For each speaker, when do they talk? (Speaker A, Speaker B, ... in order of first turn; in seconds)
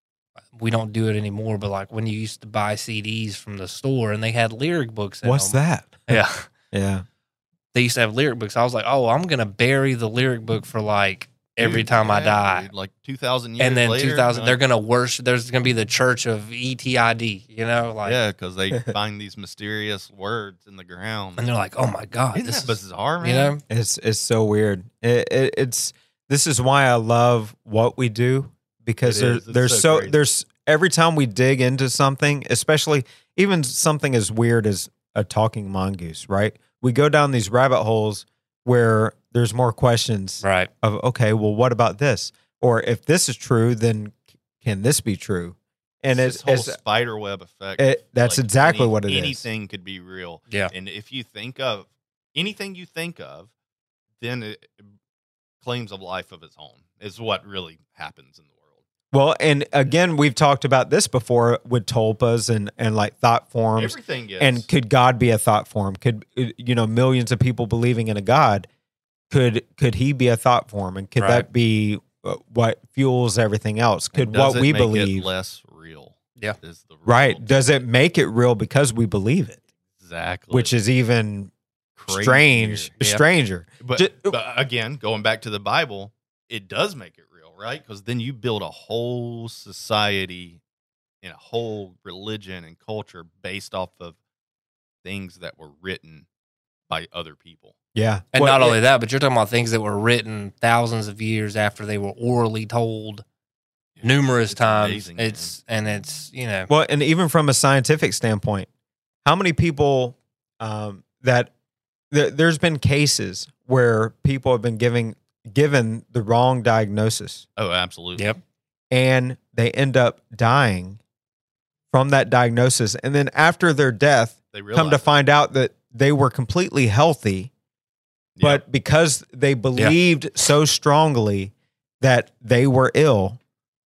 Speaker A: 0.5-6.5, 7.7-12.7, 13.6-18.2, 21.4-23.6, 40.4-40.7, 71.2-71.5, 98.3-103.2, 104.0-106.7
Speaker B: 5.2-6.2, 6.7-7.0, 23.7-46.8, 47.8-49.5, 59.1-68.7, 69.3-75.3, 77.0-79.6, 80.5-81.5, 82.1-84.3, 97.9-98.8, 106.7-108.7, 109.2-111.5, 112.1-117.4, 118.9-121.0, 121.9-127.5, 128.4-133.4
Speaker C: 11.6-14.6, 18.0-21.5, 22.3-23.6, 29.0-30.2, 46.1-53.5, 54.2-54.8, 55.6-58.7, 63.7-64.7, 74.1-77.7, 80.0-80.7, 82.0-82.9, 83.8-90.6, 91.2-94.2, 95.0-96.2, 96.9-97.7, 104.0-105.5, 117.6-118.3, 124.5-125.2, 128.4-128.6